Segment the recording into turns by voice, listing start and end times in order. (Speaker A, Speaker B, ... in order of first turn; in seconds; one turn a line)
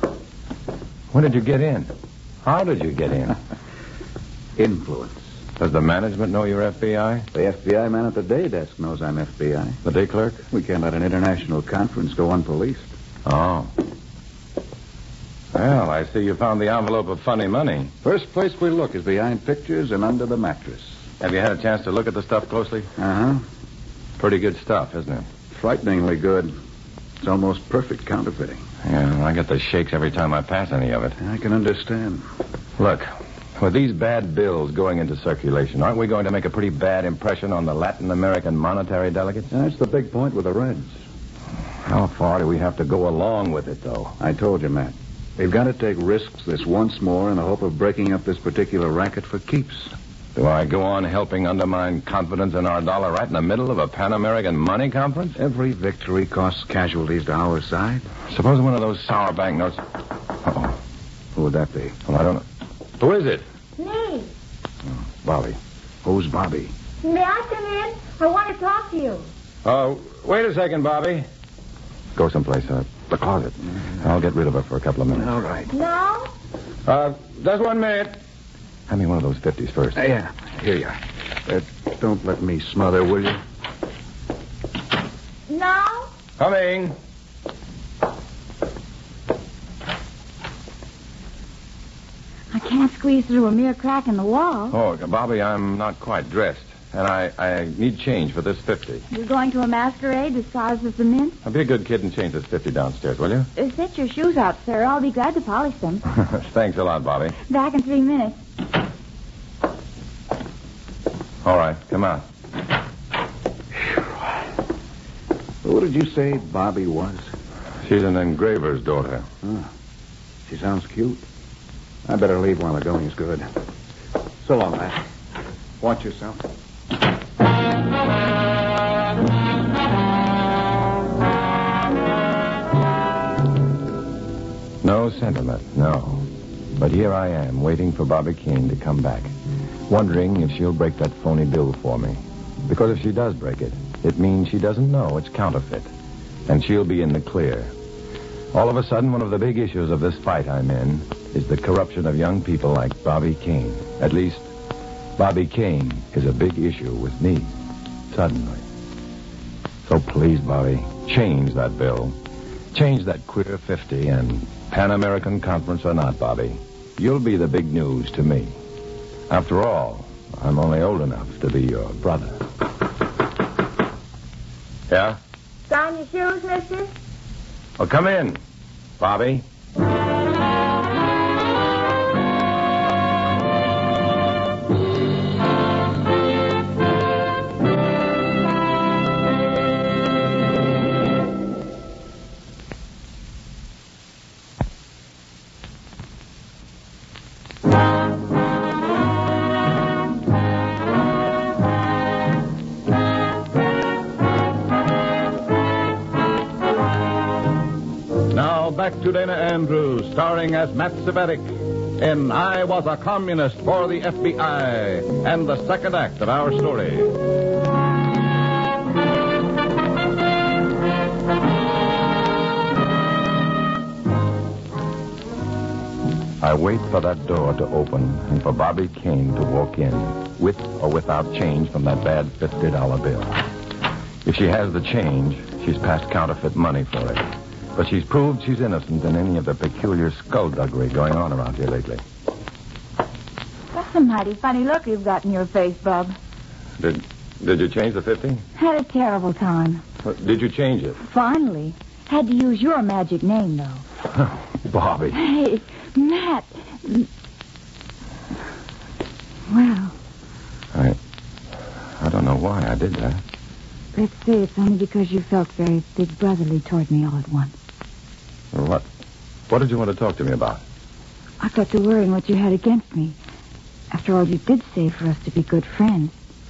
Speaker A: 1.1-1.9
Speaker A: 2.4-3.4
Speaker B: 4.6-5.2
Speaker A: 5.6-7.3
Speaker B: 7.3-9.8
Speaker A: 9.8-10.4
Speaker B: 10.5-12.9
Speaker A: 13.2-13.7
Speaker A: 15.5-17.9
Speaker B: 18.0-20.9
Speaker A: 21.2-22.9
Speaker B: 23.0-23.4
Speaker A: 24.2-25.3
Speaker B: 25.5-26.6
Speaker B: 27.2-28.6
Speaker A: 28.8-31.2
Speaker B: 31.2-32.2
Speaker A: 32.8-39.5
Speaker B: 39.5-40.9
Speaker A: 41.9-44.2
Speaker B: 44.2-49.9
Speaker A: 50.4-55.4
Speaker B: 55.4-58.1
Speaker A: 58.3-59.8
Speaker A: 60.4-60.8
Speaker B: 61.4-62.0
Speaker A: 62.1-62.5
Speaker A: 63.0-63.5
Speaker C: 63.8-64.3
Speaker A: 65.2-65.6
Speaker B: 66.0-66.7
Speaker C: 67.0-69.3
Speaker A: 69.7-71.3
Speaker A: 72.2-75.3
Speaker B: 75.2-75.7
Speaker C: 75.7-76.3
Speaker A: 76.9-78.2
Speaker A: 78.9-80.1
Speaker B: 80.0-83.4
Speaker C: 85.5-86.1
Speaker A: 86.4-87.0
Speaker C: 92.5-94.8
Speaker A: 94.7-99.0
Speaker C: 99.1-101.4
Speaker A: 101.4-103.5
Speaker C: 103.6-106.0
Speaker A: 106.1-107.4
Speaker C: 107.5-108.4
Speaker A: 111.4-112.2
Speaker B: 115.6-117.2
Speaker A: 117.8-119.3
Speaker B: 120.5-121.2
Speaker B: 122.1-123.5
Speaker B: 124.4-125.0
Speaker B: 125.8-126.4
Speaker A: 134.8-139.3
Speaker A: 139.9-145.9
Speaker A: 146.5-147.7
Speaker A: 148.5-154.5
Speaker A: 155.2-157.5
Speaker A: 158.1-158.6
Speaker A: 159.9-162.2
Speaker A: 162.7-168.6
Speaker A: 169.3-172.4
Speaker A: 174.9-175.2
Speaker C: 175.7-176.9
Speaker A: 177.8-178.4
Speaker A: 179.0-179.4
Speaker D: 208.3-217.2
Speaker A: 226.4-233.5
Speaker A: 234.2-242.0
Speaker C: 243.7-246.2
Speaker A: 246.8-248.4
Speaker C: 248.6-249.8
Speaker A: 250.0-251.0
Speaker C: 251.0-253.8
Speaker A: 254.2-255.2
Speaker C: 255.1-257.1
Speaker C: 259.5-259.9
Speaker A: 262.0-263.2
Speaker C: 263.9-267.5
Speaker A: 268.5-268.9
Speaker A: 269.5-270.6
Speaker C: 271.4-273.2
Speaker C: 273.9-276.1